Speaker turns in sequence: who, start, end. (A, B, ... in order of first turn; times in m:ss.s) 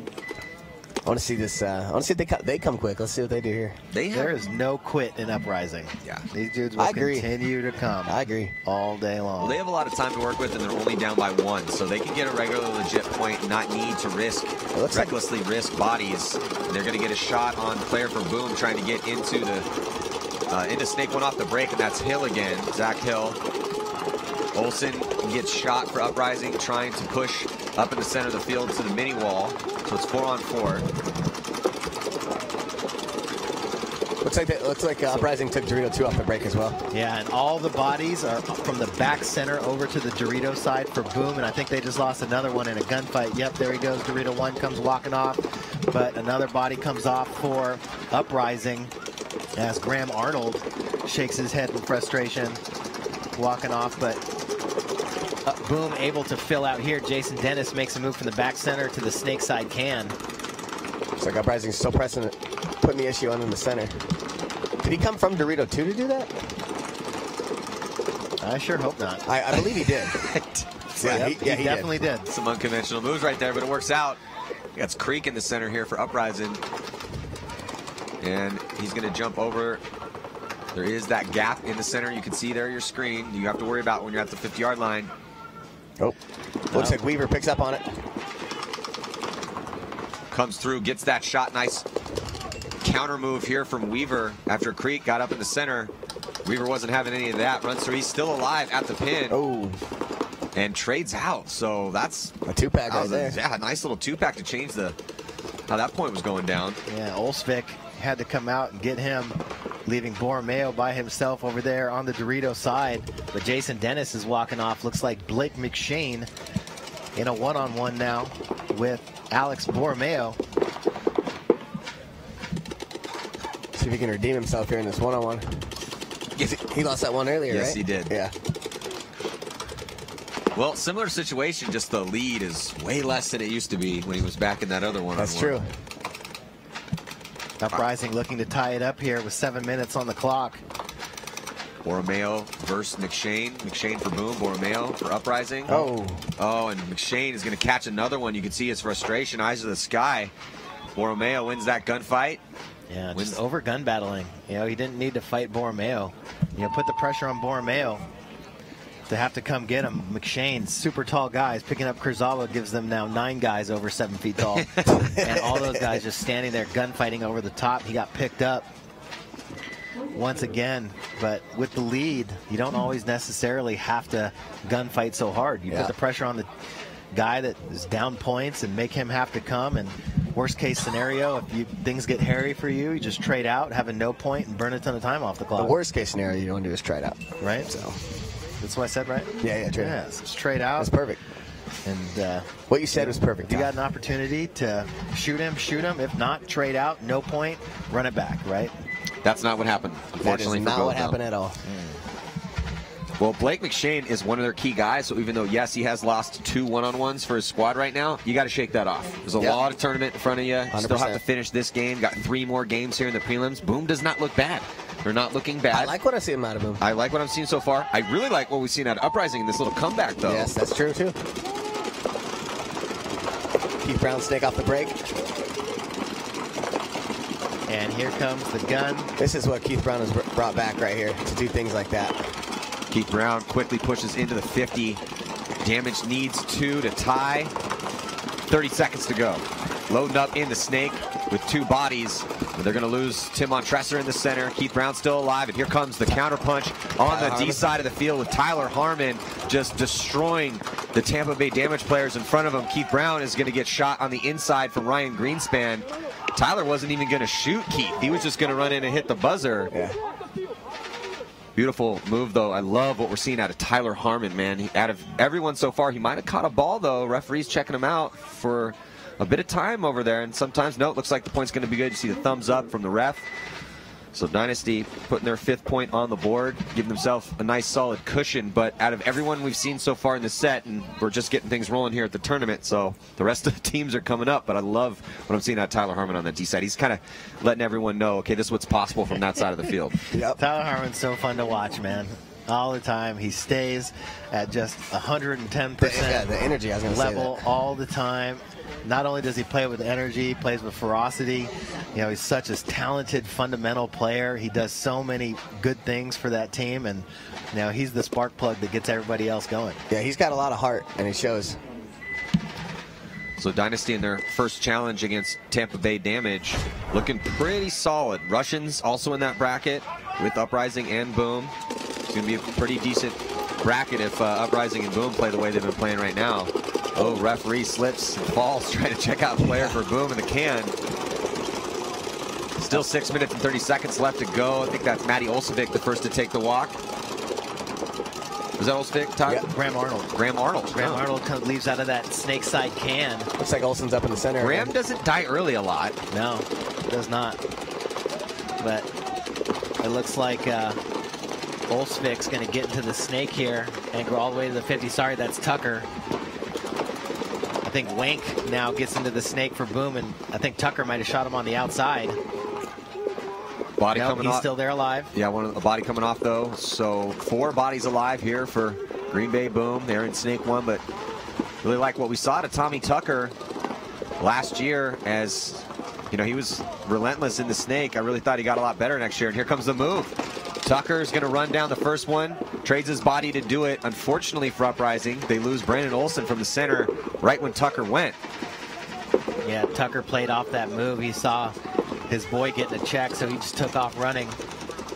0:01.0-0:03.8 A
0:03.9-0:04.4 B
0:04.1-0:09.6 C
0:06.8-0:07.3 A
0:08.0-0:08.6 A
0:09.4-0:19.7 B
0:14.7-0:15.2 A
0:20.5-0:23.4 B
0:24.5-0:30.8 B
0:34.2-0:36.8 A
0:36.9-0:48.9 C
0:49.6-0:52.6 C
0:53.4-0:54.2 C
0:55.4-1:00.2 C
1:01.2-1:04.0 A
1:04.8-1:06.3 A
1:08.4-1:09.2 C
1:09.3-1:10.2 A
1:10.1-1:11.3 B
1:11.0-1:12.0 A
1:11.0-1:12.3 C
1:12.3-1:14.2 B
1:14.8-1:16.6 B
1:18.2-1:19.8 B
1:20.7-1:25.1 B
1:26.7-1:27.8 A
1:30.3-1:31.9 B
1:32.8-1:35.9 B
1:36.4-1:39.4 B
1:39.3-1:39.8 A
1:40.6-1:45.0 B
1:42.5-1:43.4 A
1:45.7-1:46.8 B
1:46.9-1:56.3 C
1:57.2-2:00.4 C
2:03.7-2:05.7 A
2:06.4-2:08.3 A
2:07.5-2:08.1 B
2:10.5-2:15.6 B
2:15.2-2:15.7 A
2:17.6-2:20.6 C
2:21.8-2:25.8 B
2:25.7-2:26.3 A
2:26.4-2:30.3 B
2:31.0-2:32.4 B
2:32.9-2:38.1 C
2:33.1-2:33.4 B
2:39.1-2:48.7 C
2:44.6-2:44.9 B
2:44.9-2:46.0 A
2:50.1-2:56.5 C
2:55.7-2:55.9 A
2:57.1-3:05.8 C
3:05.6-3:08.0 A
3:07.4-3:07.7 C
3:08.6-3:10.9 C
3:09.4-3:10.0 A
3:10.8-3:11.2 A
3:11.8-3:18.7 C
3:12.7-3:13.7 A
3:19.2-3:21.2 B
3:20.2-3:21.6 A
3:21.6-3:22.0 C
3:23.2-3:35.9 B
3:30.7-3:31.2 A
3:35.7-3:36.8 A
3:36.8-3:40.5 B
3:40.2-3:41.2 A
3:43.8-3:45.0 A
3:47.7-3:49.1 C
3:49.2-3:52.3 A
3:52.9-3:55.0 B
3:55.6-3:57.5 B
3:58.5-4:19.7 B
4:07.0-4:07.7 A
4:21.6-4:33.3 B
4:34.1-4:50.1 B
4:50.1-4:50.4 A
4:50.4-4:56.3 C
4:55.8-4:57.5 A
4:56.9-5:09.8 C
5:09.9-5:11.6 A
5:13.4-5:21.5 B
5:22.1-5:30.8 B
5:29.4-5:29.8 A
5:32.6-5:36.8 B
5:38.6-5:39.5 B
5:39.5-5:40.2 C
5:40.1-5:41.0 B
5:40.7-5:43.3 C
5:43.4-5:44.7 A
5:44.4-5:46.0 B
5:46.1-5:47.4 C
5:48.6-5:48.9 C
5:49.8-5:50.8 C
5:51.7-5:55.9 C
5:57.6-6:02.2 C
6:03.8-6:04.4 B
6:04.0-6:05.1 C
6:05.1-6:10.8 B
6:11.6-6:13.4 B
6:14.2-6:28.2 B
6:29.4-6:31.6 C
6:32.1-6:34.4 C